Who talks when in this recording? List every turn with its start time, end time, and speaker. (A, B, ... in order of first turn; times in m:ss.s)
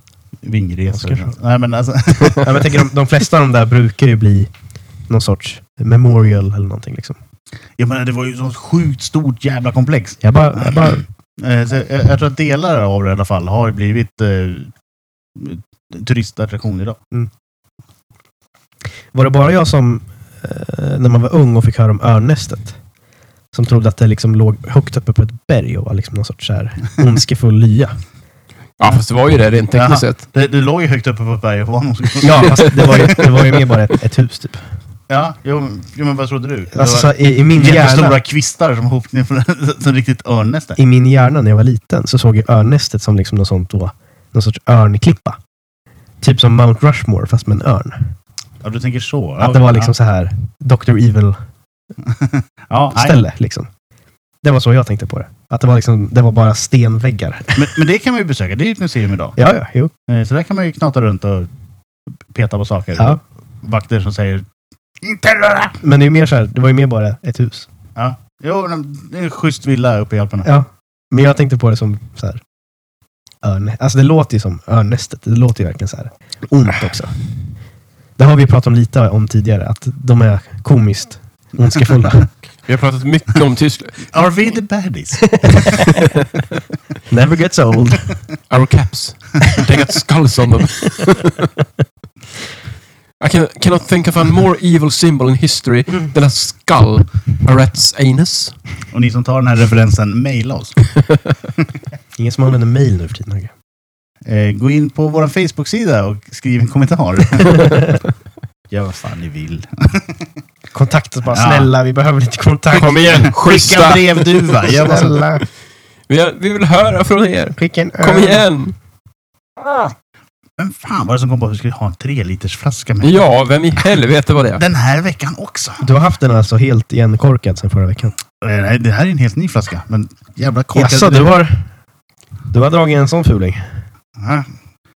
0:00.4-0:02.7 A
0:00.9-0:01.3 B
0:02.4-0:04.5 B
0:05.1-0:07.2 B
0:07.8-0:14.7 A
0:10.2-0:11.0 B
0:15.4-0:17.0 A
0:19.1-0:22.8 B
0:23.5-0:27.9 B
0:28.8-0:30.2 C
0:29.7-0:33.3 A
0:32.2-0:34.6 B
0:32.4-0:33.1 C
0:35.1-0:40.8 A
0:36.7-0:38.2 B
0:40.8-0:45.4 B
0:46.2-0:48.1 B
0:48.6-0:49.9 A
0:49.4-0:51.4 B
0:52.0-0:53.2 A
0:52.9-0:53.7 B
0:54.4-0:57.7 B
0:57.6-0:59.4 A
0:59.4-0:59.9 B
1:00.1-1:01.5 A
1:02.3-1:04.4 A
1:05.0-1:05.8 A
1:05.8-1:07.7 B
1:08.0-1:10.5 A
1:10.4-1:12.4 B
1:13.4-1:17.2 B
1:18.2-1:22.3 B
1:22.7-1:24.1 C
1:24.1-1:25.9 A
1:25.4-1:25.8 B
1:27.1-1:28.2 B
1:28.5-1:31.5 C
1:33.2-1:38.6 C
1:38.9-1:40.8 A
1:42.2-1:43.5 B
1:44.2-1:47.9 A
1:48.7-1:50.2 A
1:50.7-1:53.4 B
1:51.3-1:51.7 A
1:52.7-1:54.6 C
1:53.4-1:55.2 A
1:54.6-1:55.4 B
1:56.1-1:58.7 C
1:57.6-1:58.4 B
2:00.6-2:03.2 A
2:03.0-2:04.6 C
2:04.6-2:05.8 A
2:05.8-2:08.2 B
2:08.4-2:11.3 A
2:10.7-2:11.7 B
2:12.5-2:13.7 B
2:14.2-2:14.5 A